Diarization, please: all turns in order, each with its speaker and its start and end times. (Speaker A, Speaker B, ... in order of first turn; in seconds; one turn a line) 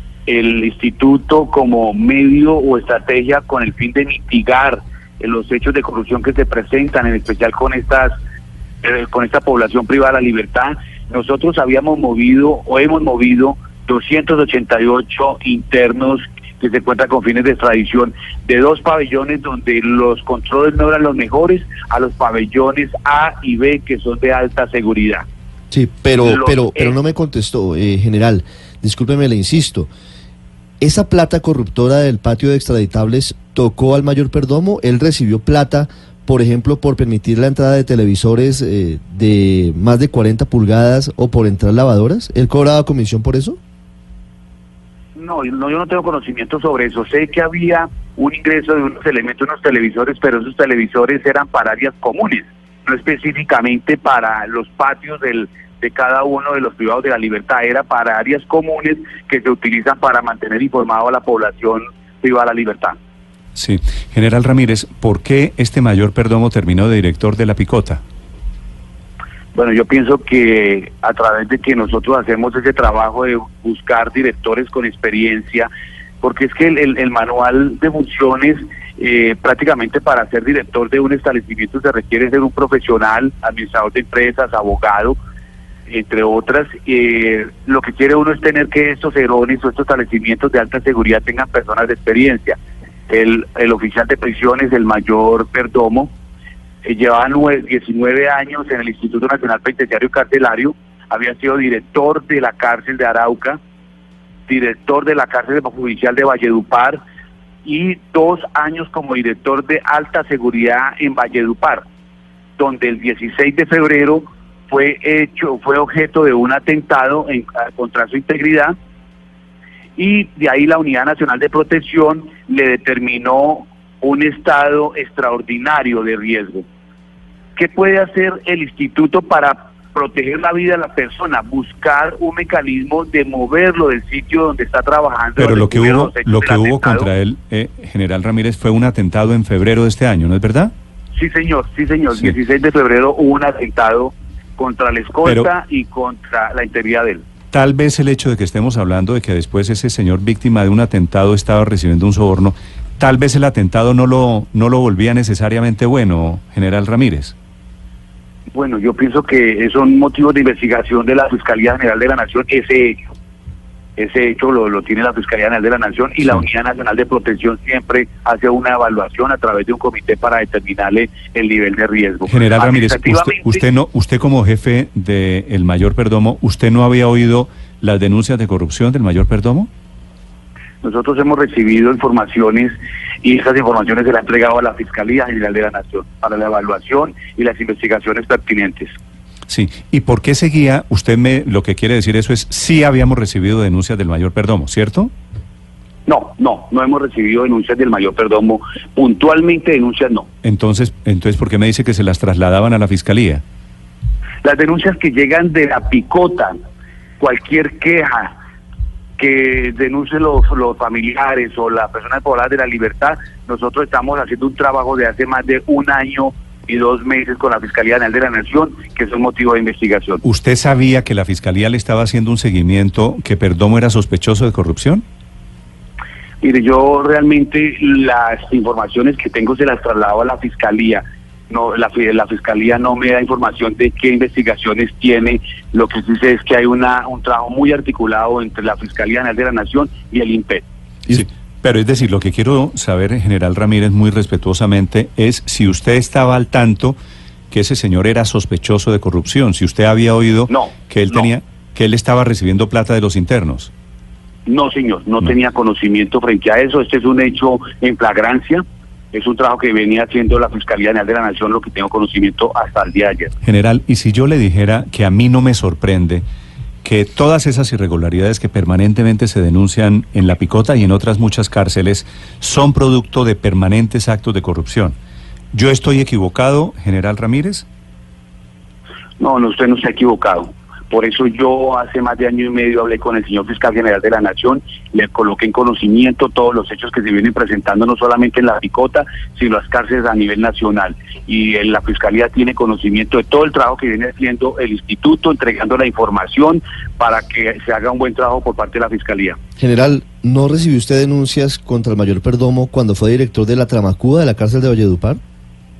Speaker A: 0.3-8.2
Speaker A: 8.8-25.2
Speaker B: 25.7-29.9
Speaker A: 26.2-26.9
Speaker B: 30.8-43.6
Speaker A: 45.1-63.0
Speaker C: 63.5-68.0
Speaker A: 69.5-75.7
Speaker A: 76.2-85.2
Speaker A: 85.9-92.6
Speaker A: 93.1-96.1
Speaker A: 96.8-103.6
Speaker A: 104.5-107.0
Speaker A: 107.6-111.8
Speaker A: 112.6-118.7
Speaker A: 120.0-126.7
Speaker A: 127.5-137.1
Speaker C: 135.4-140.7
Speaker A: 141.1-147.2
Speaker C: 147.5-157.3
Speaker A: 158.5-163.0
Speaker A: 164.0-173.6
Speaker C: 172.3-179.7
Speaker A: 180.8-188.9
Speaker C: 189.5-195.1
Speaker A: 196.1-200.3
Speaker C: 200.4-203.4
Speaker A: 204.4-206.6
Speaker A: 207.2-208.3
Speaker A: 209.2-220.2
Speaker C: 220.2-225.0
Speaker A: 226.4-240.6
Speaker C: 241.1-247.0
Speaker C: 247.5-253.7
Speaker A: 250.5-251.3
Speaker A: 254.4-263.3
Speaker C: 263.4-266.2
Speaker C: 266.8-274.9
Speaker C: 275.5-277.6
Speaker A: 279.2-299.4
Speaker B: 299.6-305.2